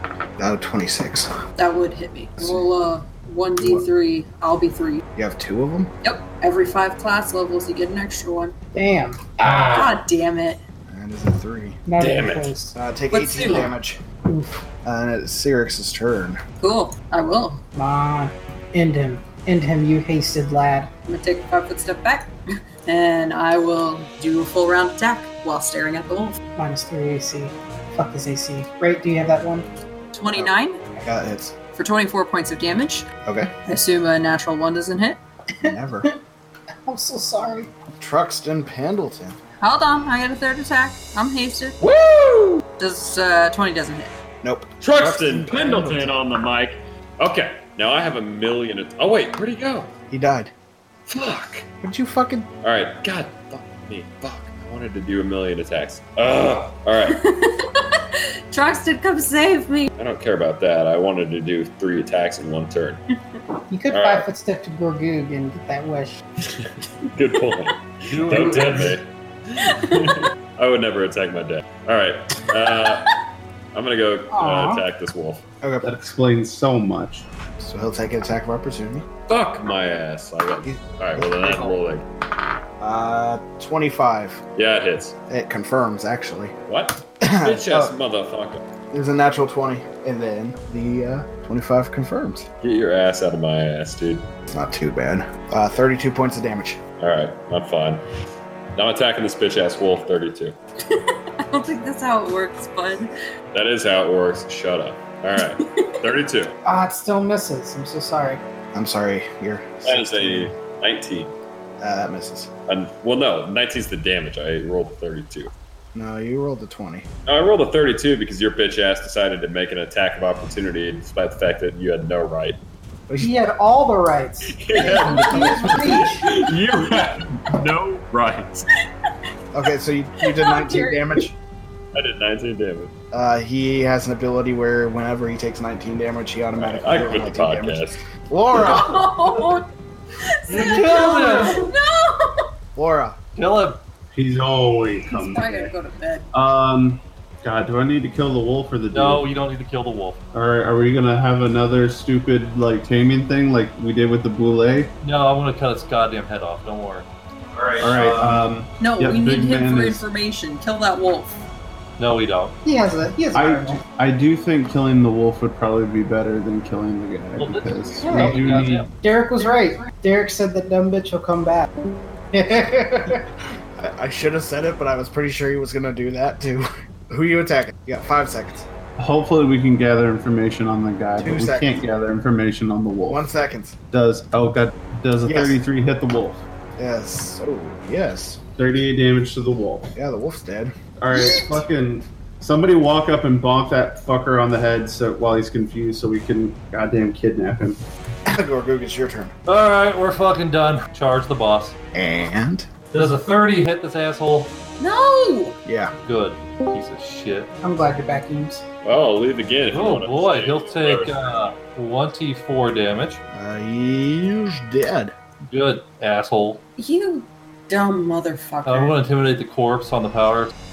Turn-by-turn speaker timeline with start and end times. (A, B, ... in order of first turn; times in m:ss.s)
0:00.4-0:01.3 A
0:01.6-0:05.0 B
0:02.4-0:02.7 A
0:03.6-0:03.9 A
0:05.2-0:05.9 A
0:06.0-0:08.5 B
0:08.7-0:09.9 C
0:09.4-0:10.6 B
0:10.9-0:11.8 A
0:11.9-0:12.8 C
0:12.0-0:12.5 D
0:12.7-0:14.0 A
0:13.1-0:13.7 B
0:14.2-0:14.5 C
0:14.8-0:16.4 A
0:16.6-0:17.6 B
0:17.8-0:20.9 C
0:21.1-0:22.3 B
0:22.8-0:26.4 B
0:26.6-0:29.7 C
0:30.1-0:30.8 B
0:30.3-0:31.5 A
0:31.7-0:33.1 B
0:33.2-0:33.5 A
0:33.7-0:35.2 B
0:35.6-0:36.1 A
0:35.6-0:36.1 C
0:36.8-0:37.7 C
0:38.0-0:39.4 A
0:39.6-0:41.7 B
0:41.8-0:42.6 D
0:42.8-0:44.1 B
0:44.4-0:46.2 A
0:44.8-0:49.9 D
0:50.1-0:50.5 A
0:51.1-0:51.7 D
0:51.8-0:52.5 A
0:52.6-0:57.2 D
0:58.5-0:59.8 B
1:00.0-1:03.0 D
1:03.7-1:06.2 C
1:03.9-1:04.3 D
1:06.4-1:13.1 D
1:08.1-1:09.0 E
1:13.7-1:15.4 D
1:14.3-1:14.8 C
1:15.6-1:15.9 A
1:15.8-1:17.3 F
1:17.6-1:19.0 A
1:19.3-1:22.0 D
1:20.6-1:21.8 A
1:22.8-1:24.4 A
1:24.6-1:25.1 D
1:25.3-1:26.5 A
1:26.7-1:28.6 D
1:27.2-1:27.9 A
1:28.9-1:32.5 A
1:32.6-1:34.3 D
1:34.5-1:36.8 A
1:37.0-1:38.0 D
1:38.7-1:40.6 D
1:41.5-1:43.1 B
1:43.5-1:46.6 D
1:46.6-1:48.4 C
1:48.7-1:50.5 A
1:49.8-1:51.3 D
1:51.8-1:52.5 A
1:52.7-1:55.5 D
1:55.9-1:57.0 A
1:57.2-2:02.6 D
2:03.1-2:03.4 A
2:03.2-2:06.2 C
2:04.5-2:08.6 D
2:04.9-2:06.2 A
2:09.5-2:11.3 A
2:10.3-2:11.1 B
2:11.9-2:12.9 D
2:13.1-2:19.1 A
2:16.6-2:18.0 D
2:18.6-2:19.6 B
2:20.4-2:22.4 B
2:20.5-2:21.6 E
2:22.7-2:23.2 A
2:23.4-2:23.8 E
2:24.1-2:25.7 F
2:25.1-2:26.2 B
2:26.3-2:29.3 F
2:28.9-2:30.2 E
2:30.3-2:34.9 F
2:35.0-2:38.4 E
2:37.8-2:40.0 F
2:38.8-2:41.3 B
2:42.0-2:42.6 E
2:42.6-2:43.8 C
2:43.3-2:48.9 F
2:47.4-2:48.9 E
2:49.0-2:51.7 C
2:52.3-2:53.2 C
2:53.8-2:58.7 A
2:59.0-3:03.2 F
3:01.2-3:01.8 A
3:03.1-3:03.8 A
3:03.9-3:06.4 F
3:05.2-3:05.6 A
3:06.8-3:08.4 A
3:08.6-3:09.9 F
3:09.9-3:10.7 A
3:11.0-3:17.8 F
3:18.3-3:19.3 A
3:19.4-3:21.8 E
3:21.9-3:22.7 A
3:22.9-3:24.5 E
3:24.8-3:25.6 B
3:25.6-3:25.9 A
3:26.0-3:27.5 E
3:27.6-3:28.6 C
3:28.8-3:31.5 D
3:29.7-3:33.2 E
3:33.3-3:35.1 A
3:35.5-3:36.6 E
3:36.8-3:38.9 B
3:38.7-3:40.5 E